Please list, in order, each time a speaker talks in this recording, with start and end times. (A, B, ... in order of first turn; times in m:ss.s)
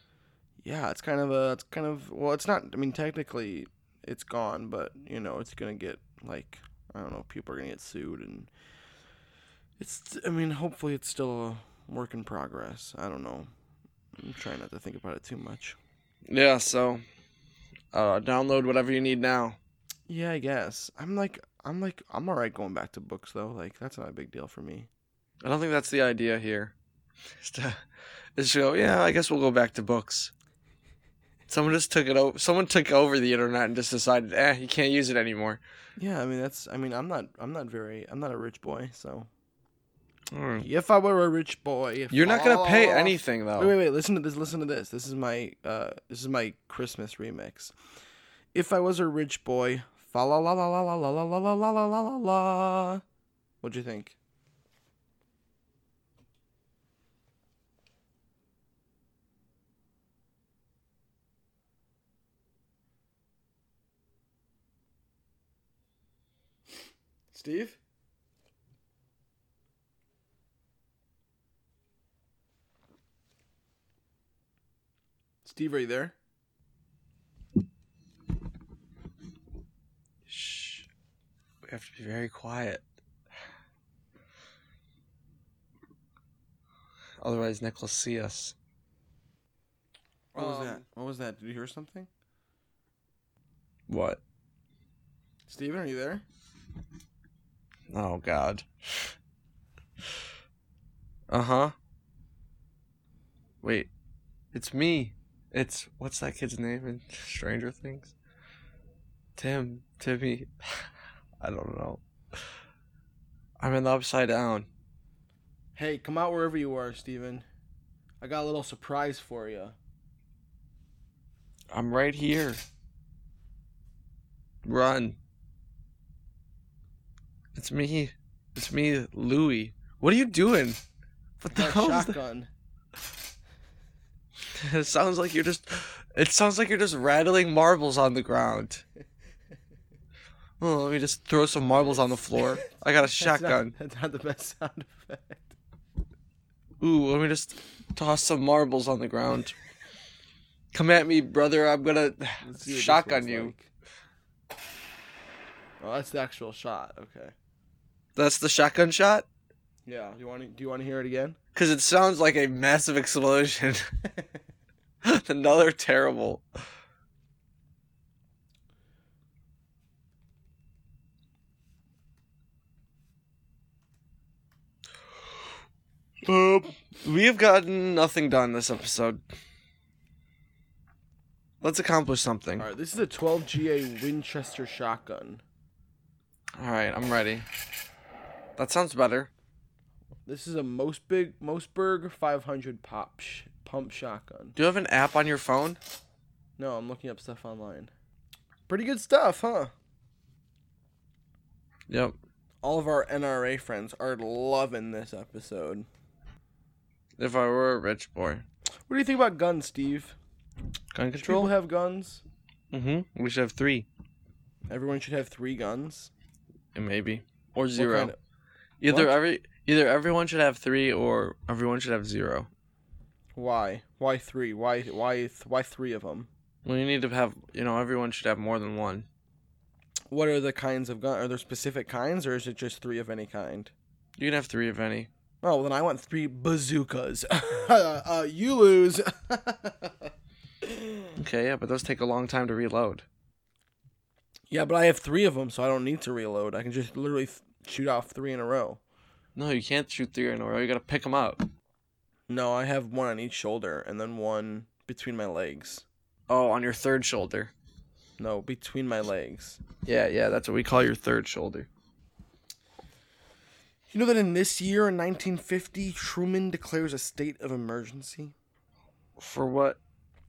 0:00.6-0:08.5 A
0:09.8-0:13.5 A
0:14.2-0:15.8 A
0:16.3-0:17.0 B
0:17.9-0:19.6 B
0:20.1-0:24.9 A
0:25.4-0:26.7 B
0:27.4-0:27.8 B
0:28.4-0:30.3 B
0:31.5-0:35.6 B
0:36.0-0:39.3 A
0:40.3-0:40.6 B
0:40.6-0:47.7 A
0:42.1-0:43.7 B
0:48.5-0:53.0 A
0:53.6-0:54.2 A
1:07.3-1:07.8 A
1:15.4-1:16.2 A
1:20.3-1:20.9 B
1:21.7-1:22.8 B
1:27.2-1:28.6 B
1:30.3-1:32.1 A
1:30.4-1:30.8 B
1:33.9-1:34.2 B
1:35.5-1:36.2 A
1:37.9-1:39.1 B
1:41.3-1:41.7 B
1:43.6-1:43.9 B
1:44.5-1:48.1 B
1:49.4-1:50.8 B
1:51.4-1:52.0 B
1:53.6-1:54.7 B
1:55.8-1:57.4 A
1:58.2-1:59.8 A
2:01.7-2:02.6 B
2:04.6-2:05.2 B
2:07.6-2:10.8 B
2:11.4-2:12.2 B
2:11.5-2:12.5 A
2:14.6-2:18.8 B
2:20.6-2:23.8 B
2:21.7-2:25.6 A
2:26.8-2:29.6 B
2:30.7-2:33.5 B
2:32.4-2:33.7 A
2:35.8-2:37.3 A
2:38.2-2:39.3 B
2:39.9-2:41.4 A
2:41.6-2:43.9 B
2:45.0-2:46.4 B
2:56.2-2:59.2 B
3:01.6-3:02.7 B
3:02.6-3:05.4 A
3:06.6-3:07.5 B
3:08.6-3:09.3 B
3:10.3-3:14.6 A
3:14.6-3:15.8 B
3:16.6-3:17.9 A
3:18.7-3:19.7 A
3:21.9-3:22.2 B
3:22.6-3:25.9 A
3:27.2-3:28.4 B
3:28.9-3:30.2 A
3:30.9-3:31.5 B
3:31.2-3:32.2 A
3:32.7-3:33.9 B
3:34.7-3:36.1 A
3:36.8-3:38.1 B
3:37.8-3:38.2 A
3:38.8-3:42.5 B
3:38.9-3:39.2 A
3:43.4-3:46.3 A
3:46.6-3:49.1 B
3:50.1-3:53.7 A
3:54.2-3:55.1 B
3:55.4-4:00.1 A
4:00.6-4:01.1 A
4:01.2-4:03.0 B
4:04.5-4:08.8 A
4:09.4-4:11.5 B
4:12.3-4:15.8 A
4:16.3-4:17.5 B
4:18.2-4:19.6 A
4:19.8-4:21.7 B
4:23.9-4:28.3 A
4:29.2-4:29.8 B